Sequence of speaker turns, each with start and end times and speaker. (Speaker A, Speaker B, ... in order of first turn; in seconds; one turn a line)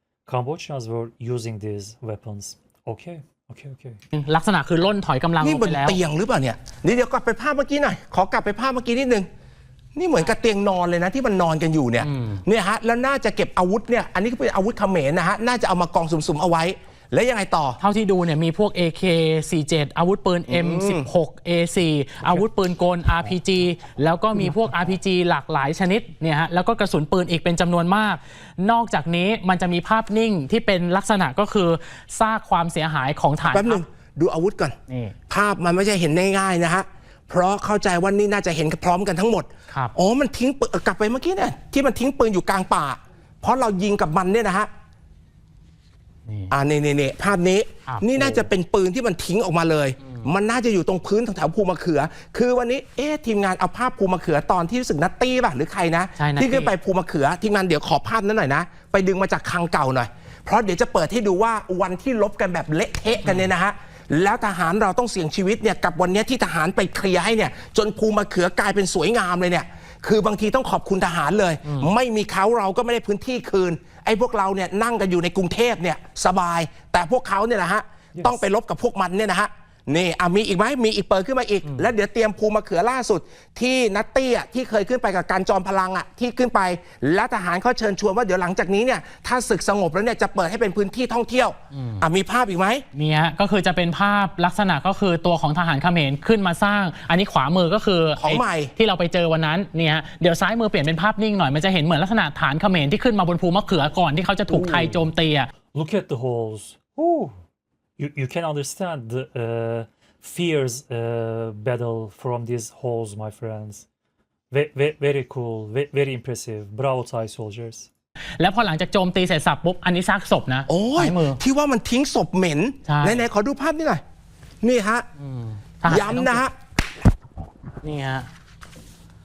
Speaker A: 0.2-4.0
Speaker B: 4.1-6.0
Speaker C: 5.4-9.3
Speaker C: 9.9-17.8
Speaker B: 12.0-12.4
Speaker B: 17.8-33.8
Speaker C: 20.5-21.1
Speaker C: 33.4-34.8
Speaker B: 34.9-35.1
Speaker C: 35.3-44.7
Speaker B: 46.2-46.5
Speaker C: 46.5-92.8
Speaker B: 47.9-48.5
Speaker B: 56.2-56.7
Speaker B: 63.2-63.5
Speaker B: 71.6-71.9
Speaker B: 91.7-92.0
Speaker B: 92.9-105.5
Speaker C: 98.2-98.7
Speaker C: 104.5-105.0
Speaker A: 105.7-107.3
Speaker A: 108.0-113.8
Speaker A: 114.5-117.9
Speaker B: 118.4-121.4
Speaker C: 120.7-124.0
Speaker B: 122.8-123.2
Speaker C: 124.6-125.1
Speaker B: 125.2-126.5
Speaker C: 125.8-126.5
Speaker B: 127.8-128.3